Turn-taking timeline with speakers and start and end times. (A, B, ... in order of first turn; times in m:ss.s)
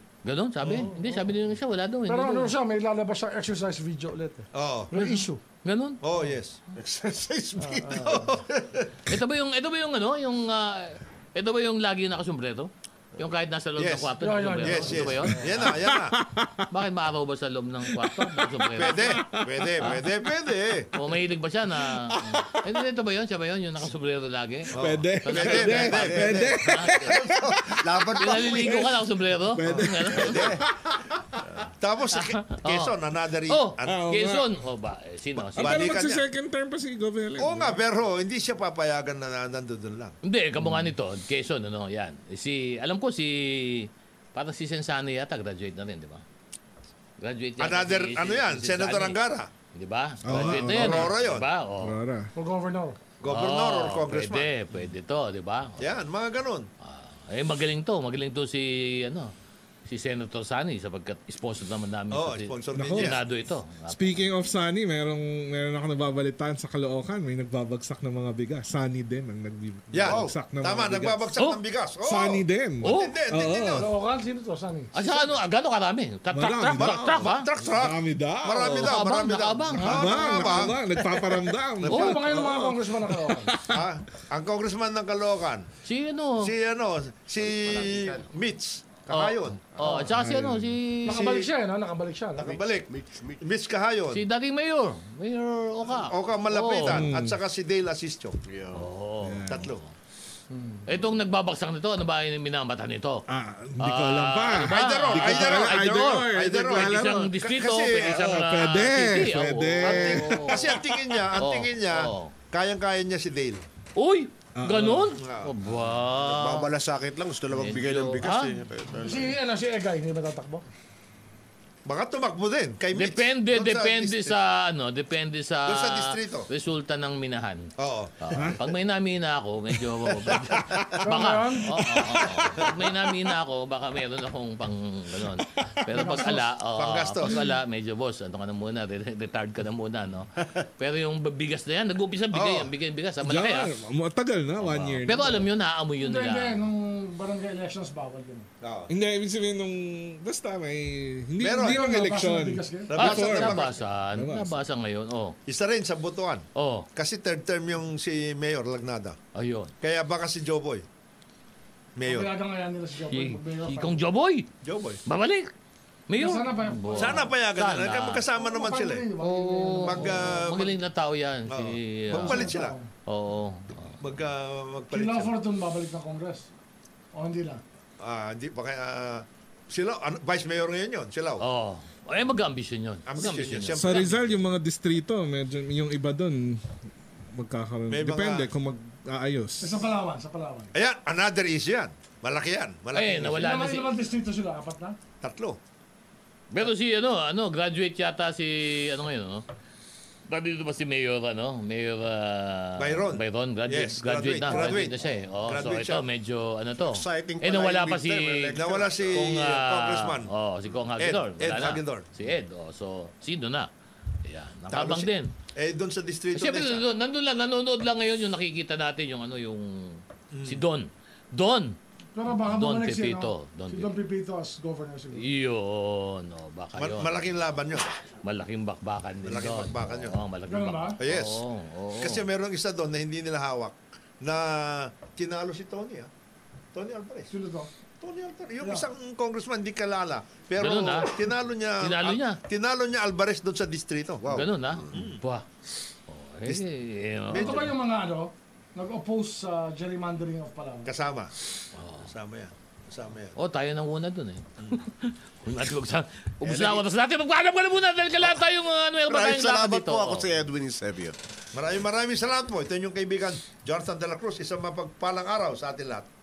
0:00.2-0:02.5 A
0:00.6-0:00.9 B
0:00.7-0:01.2 C
0:02.1-0:05.4 C
0:04.5-0:04.9 B
0:04.9-0:06.0 A
0:06.0-0:06.6 B
0:06.8-0:08.3 D
0:07.6-0:08.2 C
0:08.0-0:08.9 B
0:09.1-0:15.7 A
0:13.8-0:16.2 B
0:14.2-0:15.5 C
0:15.3-0:16.6 E
0:16.7-0:19.2 A
0:17.9-0:20.0 E
0:18.7-0:20.9 B
0:20.9-0:27.2 A
0:21.7-0:22.6 E
0:24.7-0:26.5 B
0:24.7-0:30.7 E
0:27.0-0:28.9 D
0:28.1-0:30.4 A
0:29.6-0:30.6 B
0:30.3-0:30.6 D
0:31.8-0:33.9 B
0:32.1-0:32.9 A
0:33.5-0:35.9 A
0:33.8-0:34.6 E
0:35.5-0:36.2 B
0:35.5-0:37.8 E
0:37.4-0:40.1 B
0:40.2-0:46.2 A
0:40.6-0:40.9 E
0:47.2-0:49.2 A
0:47.6-0:49.5 B
0:49.7-0:52.0 A
0:50.2-0:51.2 E
0:50.3-0:51.5 B
0:51.8-0:52.3 E
0:52.3-0:53.0 C
0:53.2-0:54.5 B
0:53.3-0:55.9 A
0:55.8-0:56.7 B
0:56.8-0:59.3 A
0:59.9-1:04.2 A
1:02.1-1:03.2 B
1:02.7-1:03.2 E
1:03.9-1:11.2 E
1:09.9-1:13.9 B
1:10.0-1:10.3 D
1:12.0-1:13.9 E
1:12.8-1:13.1 A
1:13.8-1:15.3 C
1:14.9-1:17.5 A
1:16.3-1:19.0 E
1:16.8-1:20.8 B
1:18.8-1:20.1 A
1:19.8-1:20.3 C
1:19.8-1:23.8 E
1:21.8-1:22.1 B
1:21.8-1:23.5 C
1:21.9-1:22.2 A
1:23.7-1:25.7 B
1:25.8-1:26.5 A
1:26.4-1:29.6 B
1:27.4-1:28.2 D
1:29.1-1:31.3 A
1:29.9-1:30.7 E
1:31.0-1:32.6 C
1:31.1-1:31.5 B
1:32.4-1:32.9 B
1:32.9-1:33.4 D
1:33.4-1:34.2 B
1:34.1-1:37.0 A
1:35.9-1:38.4 B
1:36.9-1:37.4 E
1:38.4-1:38.9 D
1:38.7-1:39.6 A
1:39.2-1:39.7 E
1:39.5-1:39.8 B
1:40.5-1:40.8 C
1:40.8-1:43.2 A
1:43.3-1:50.7 E
1:43.8-1:50.8 A
1:44.6-1:48.3 B
1:49.8-1:53.6 B
1:51.3-1:52.3 A
1:54.0-1:56.7 A
1:54.6-1:55.1 E
1:55.2-1:55.6 B
1:56.1-1:59.4 D
1:57.5-1:58.6 A
1:59.0-2:00.6 C
2:01.8-2:04.4 B
2:02.9-2:23.7 A
2:05.6-2:06.5 B
2:07.8-2:08.1 B
2:08.3-2:08.6 E
2:09.8-2:11.0 E
2:11.0-2:11.8 C
2:11.7-2:12.8 E
2:15.4-2:16.2 E
2:15.9-2:16.4 C
2:16.8-2:17.3 B
2:22.3-2:22.7 B
2:23.2-2:25.5 E
2:24.6-2:26.6 A
2:26.0-2:28.5 C
2:28.6-2:28.9 B
2:28.9-2:33.6 E
2:31.4-2:31.8 B
2:31.6-2:32.9 C
2:32.9-2:33.8 B
2:32.9-2:35.4 A
2:34.1-2:34.6 E
2:35.4-2:39.2 B
2:36.5-2:36.9 A
2:39.3-2:39.7 A
2:39.8-2:40.8 B
2:42.0-2:42.3 B
2:42.1-2:44.0 C
2:43.1-2:44.5 A
2:44.6-2:45.0 B
2:45.0-2:45.5 A
2:46.1-2:48.2 A
2:46.2-2:47.2 C
2:46.9-2:49.1 B
2:48.3-2:50.4 C
2:49.2-2:52.5 A
2:49.8-2:50.8 B
2:51.5-2:52.8 B
2:52.1-2:52.9 C
2:53.0-2:54.0 A
2:54.0-2:55.3 B
2:54.9-2:56.5 C
2:57.1-2:57.6 C
2:58.0-3:01.4 B
3:01.4-3:04.1 A
3:03.1-3:04.3 B
3:03.8-3:06.7 E
3:07.3-3:09.9 E
3:07.9-3:08.5 B
3:09.6-3:10.7 C
3:10.7-3:13.5 B
3:12.9-3:14.0 A
3:13.4-3:15.0 C
3:15.2-3:15.6 B
3:16.5-3:19.4 A
3:20.3-3:28.6 A
3:22.8-3:26.0 B
3:24.5-3:24.9 D
3:26.8-3:29.2 D
3:28.5-3:30.3 B
3:29.1-3:33.7 A
3:31.0-3:32.1 B
3:34.2-3:35.3 A
3:34.7-3:36.8 B
3:36.3-3:41.8 A
3:40.3-3:40.6 B
3:42.1-3:45.2 C
3:42.3-3:44.0 A
3:45.1-3:47.2 A
3:46.7-3:47.9 B
3:48.2-3:52.2 A
3:49.2-3:50.2 B
3:50.5-3:51.0 C
3:51.0-3:51.4 B
3:52.0-3:56.1 B
3:56.7-3:57.3 B
3:57.3-3:57.7 C
3:58.0-4:05.2 B
3:58.6-3:58.9 C
4:00.6-4:01.1 A
4:01.8-4:02.4 A
4:04.2-4:05.0 D
4:04.3-4:05.4 A
4:06.1-4:07.7 A
4:07.3-4:07.7 B
4:07.3-4:10.9 C
4:10.8-4:11.3 B
4:11.7-4:12.1 A
4:12.0-4:13.4 B
4:13.4-4:20.4 A
4:16.4-4:16.9 B
4:19.1-4:21.2 D
4:21.5-4:26.1 B